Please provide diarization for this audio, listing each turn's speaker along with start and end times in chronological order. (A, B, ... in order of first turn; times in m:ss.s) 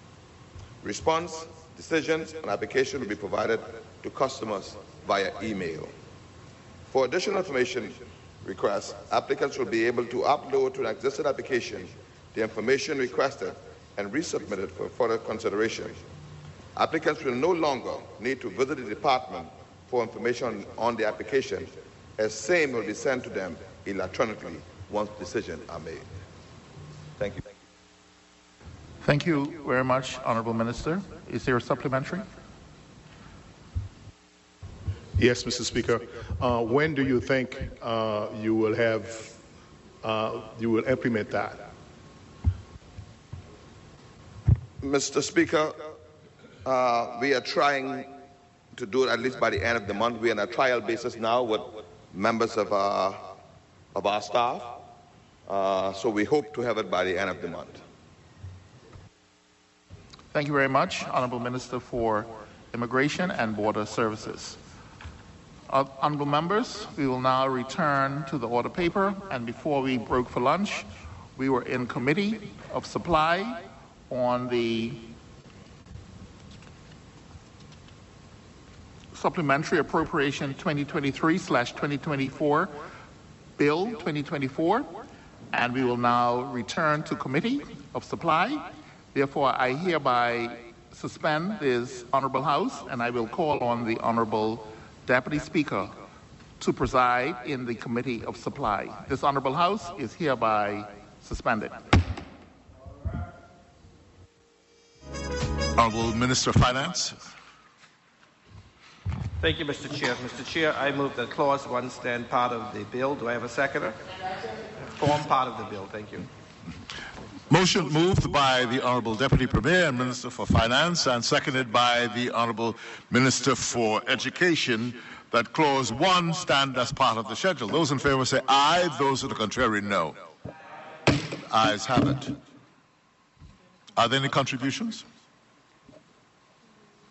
0:00.8-0:05.9 A
0:06.9-0:16.0 A
0:16.8-0:26.1 A
0:27.2-0:27.4 A
0:29.0-0:32.2 B
0:35.2-0:39.4 C
0:40.0-0:41.7 C
0:44.8-0:45.8 A
0:46.6-0:48.1 A
0:48.7-0:53.2 A
0:53.9-0:54.8 A
0:55.5-0:57.8 A
1:00.3-1:04.6 B
1:05.7-1:15.1 B
1:19.1-1:22.8 B
1:23.6-1:25.0 B
1:25.5-1:35.9 B
1:36.6-1:41.8 B
1:45.7-1:47.2 D
1:49.4-1:54.0 E
1:54.9-1:56.3 E
1:57.5-2:10.2 D
2:11.3-2:12.4 D
2:13.9-2:15.0 D